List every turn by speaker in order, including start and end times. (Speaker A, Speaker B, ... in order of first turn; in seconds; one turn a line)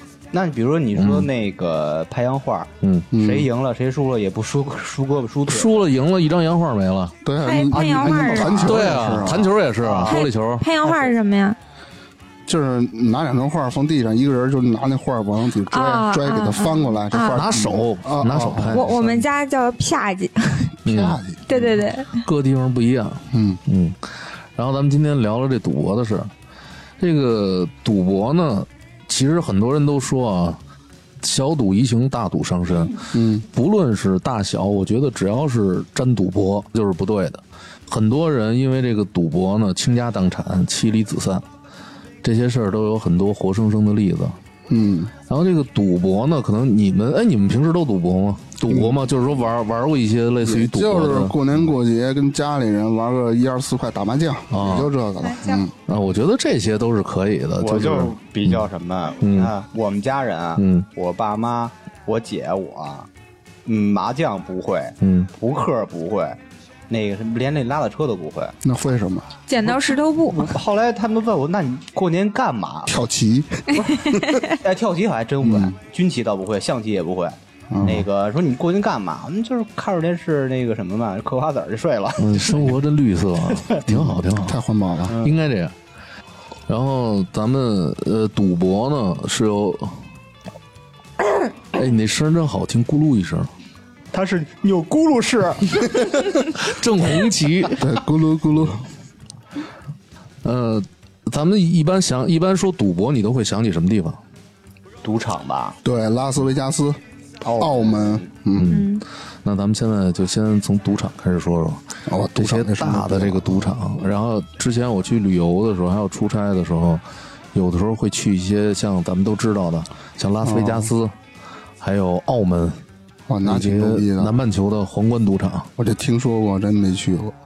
Speaker A: 0.3-5.7
Speaker B: 1.0-1.3
Speaker B: 2.8-3.1
Speaker C: 3.1-3.5
Speaker B: 5.5-7.1
Speaker C: 7.2-9.5
Speaker D: 7.4-8.8
Speaker A: 7.7-9.1
Speaker B: 8.7-10.7
Speaker A: 9.8-10.2
Speaker D: 10.1-11.6
Speaker A: 10.8-11.1
Speaker C: 12.4-18.9
Speaker D: 15.7-17.5
Speaker B: 17.3-19.2
Speaker D: 18.7-20.8
Speaker C: 20.8-21.4
Speaker B: 20.9-24.0
Speaker D: 21.5-22.2
Speaker C: 23.3-23.6
Speaker B: 24.6-26.3
Speaker B: 27.0-30.6
Speaker B: 31.2-41.4
Speaker C: 33.1-33.4
Speaker B: 42.2-44.4
Speaker C: 44.7-45.1
Speaker B: 45.3-51.6
Speaker C: 48.7-48.9
Speaker C: 50.4-55.7
Speaker B: 54.5-54.9
Speaker D: 55.2-55.6
Speaker B: 55.9-58.6
Speaker A: 57.6-63.1
Speaker B: 59.2-59.5
Speaker B: 60.6-60.9
Speaker A: 63.6-66.4
Speaker B: 65.0-65.3
Speaker A: 66.9-68.5
Speaker C: 68.6-69.3
Speaker D: 69.5-70.5
Speaker A: 69.6-73.0
Speaker C: 72.9-74.4
Speaker D: 73.8-74.5
Speaker A: 74.5-82.7
Speaker C: 75.4-75.7
Speaker C: 77.7-78.1
Speaker B: 82.2-84.6
Speaker C: 83.9-85.2
Speaker B: 85.2-85.7
Speaker B: 86.7-90.0
Speaker B: 91.7-93.5
Speaker A: 94.1-96.0
Speaker B: 96.5-97.8
Speaker C: 97.8-98.8
Speaker B: 100.4-104.2
Speaker A: 105.0-105.8
Speaker C: 105.8-107.0
Speaker A: 107.4-108.3
Speaker C: 107.6-108.8
Speaker B: 108.5-121.1
Speaker D: 108.7-109.0
Speaker C: 112.1-113.8
Speaker C: 120.4-120.9
Speaker B: 121.8-122.8
Speaker C: 123.3-124.4
Speaker B: 123.4-125.7
Speaker C: 125.8-127.3